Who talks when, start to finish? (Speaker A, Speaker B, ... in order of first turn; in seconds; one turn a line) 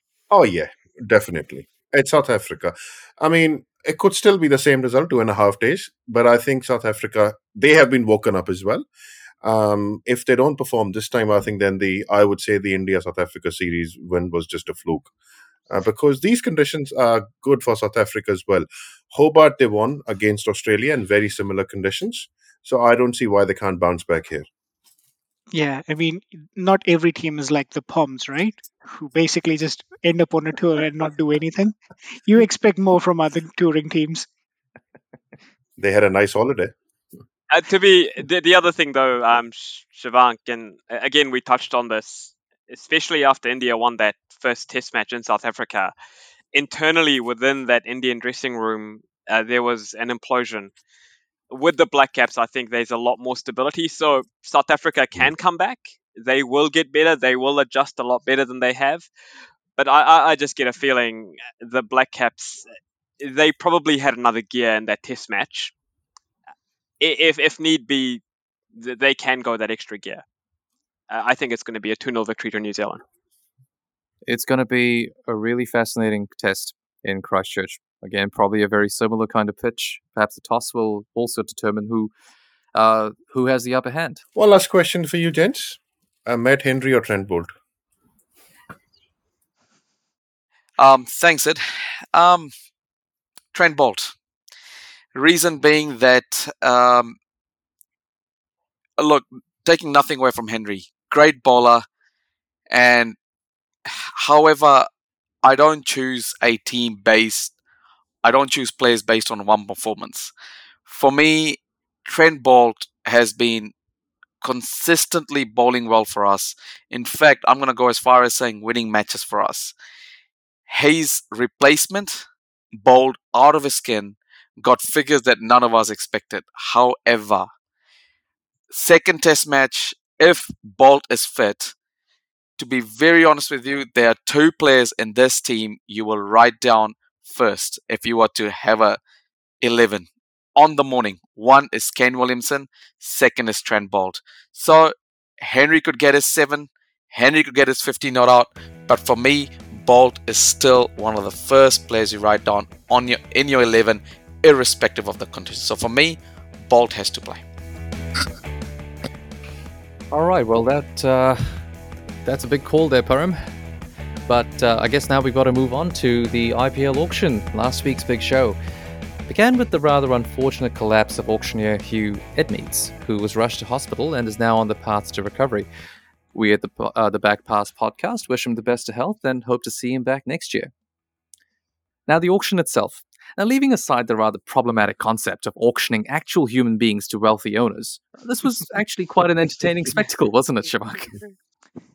Speaker A: 0.3-8.9
Speaker A: 9.4-15.1
Speaker A: 15.7-24.5
Speaker B: 25.5-34.3
Speaker A: 35.8-36.7
Speaker C: 37.5-45.9
Speaker C: 46.5-50.7
Speaker C: 51.5-59.1
Speaker C: 59.8-62.6
Speaker C: 63.2-65.7
Speaker C: 67.0-68.2
Speaker C: 68.7-70.2
Speaker C: 71.1-73.0
Speaker D: 74.3-82.1
Speaker D: 82.8-84.2
Speaker A: 84.3-87.5
Speaker E: 90.8-91.6
Speaker E: 92.1-92.5
Speaker E: 93.5-94.2
Speaker E: 95.1-97.2
Speaker E: 99.0-101.8
Speaker E: 102.7-103.2
Speaker E: 103.9-104.9
Speaker E: 105.4-107.5
Speaker E: 108.2-110.3
Speaker E: 110.9-113.7
Speaker E: 114.4-119.7
Speaker E: 120.7-127.5
Speaker E: 128.7-131.7
Speaker E: 132.6-139.0
Speaker E: 139.6-157.4
Speaker D: 160.1-161.7
Speaker D: 162.2-163.4
Speaker D: 164.3-168.6
Speaker D: 169.3-175.7
Speaker D: 176.3-180.7
Speaker D: 182.1-191.2